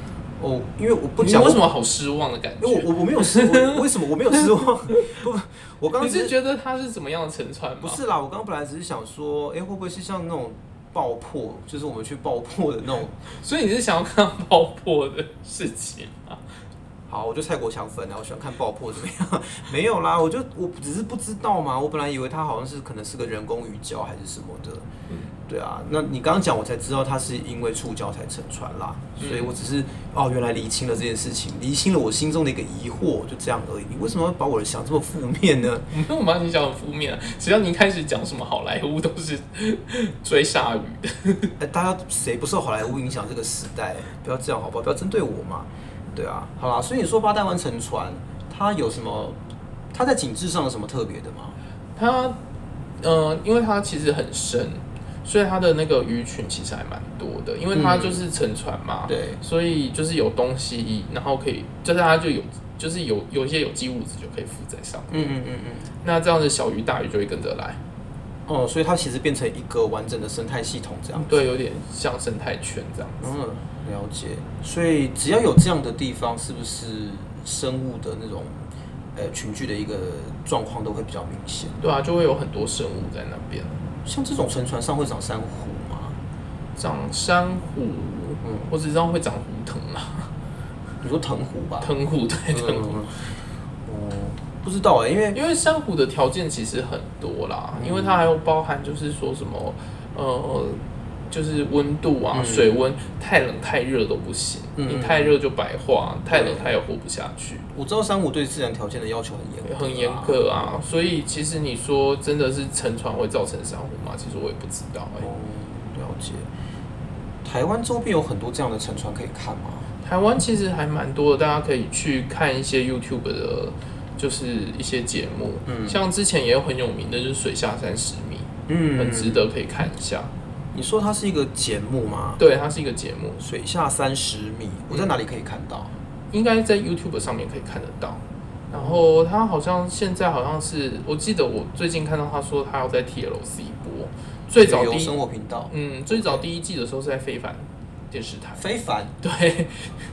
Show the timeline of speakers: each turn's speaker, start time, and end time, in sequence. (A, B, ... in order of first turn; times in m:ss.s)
0:00.4-0:01.6 A
0:01.2-0:03.8 B
0:02.6-0:06.3 A
0:04.3-0:05.2 B
0:06.0-0:08.0 B
0:07.8-0:13.2 A
0:13.3-0:16.5 B
0:17.1-0:24.9 A
0:25.1-0:25.4 B
0:25.5-0:35.9 A
0:29.2-0:29.6 B
0:35.9-0:41.5 B
0:41.6-0:49.4 A
0:49.9-0:51.6 A
0:52.0-0:52.4 B
0:53.0-1:05.3 B
0:57.7-0:58.2 A
0:59.1-0:59.4 A
1:05.1-1:05.9 A
1:06.0-1:07.8 B
1:08.5-1:11.4 A
1:11.2-1:13.3 B
1:13.2-1:18.6 A
1:19.1-1:21.8 A
1:21.8-1:23.8 B
1:24.0-1:26.2 A
1:26.8-1:30.3 B
1:28.4-1:28.7 A
1:31.0-1:31.9 A
1:31.8-1:33.0 B
1:32.5-1:33.3 A
1:33.8-1:35.4 A
1:35.3-1:47.7 B
1:37.8-1:38.2 A
1:42.3-1:42.8 A
1:44.8-1:45.4 A
1:46.3-1:46.7 A
1:47.7-1:50.5 A
1:49.6-1:55.3 B
1:55.2-1:56.5 A
1:57.4-1:59.9 A
2:00.0-2:10.3 B
2:05.7-2:06.0 A
2:08.7-2:09.4 A
2:10.7-2:12.4 A
2:12.4-2:13.4 B
2:13.4-2:15.9 A
2:16.3-2:25.2 B
2:18.7-2:19.0 A
2:24.5-2:26.4 A
2:25.7-2:28.7 B
2:28.6-2:29.2 A
2:29.2-2:29.9 B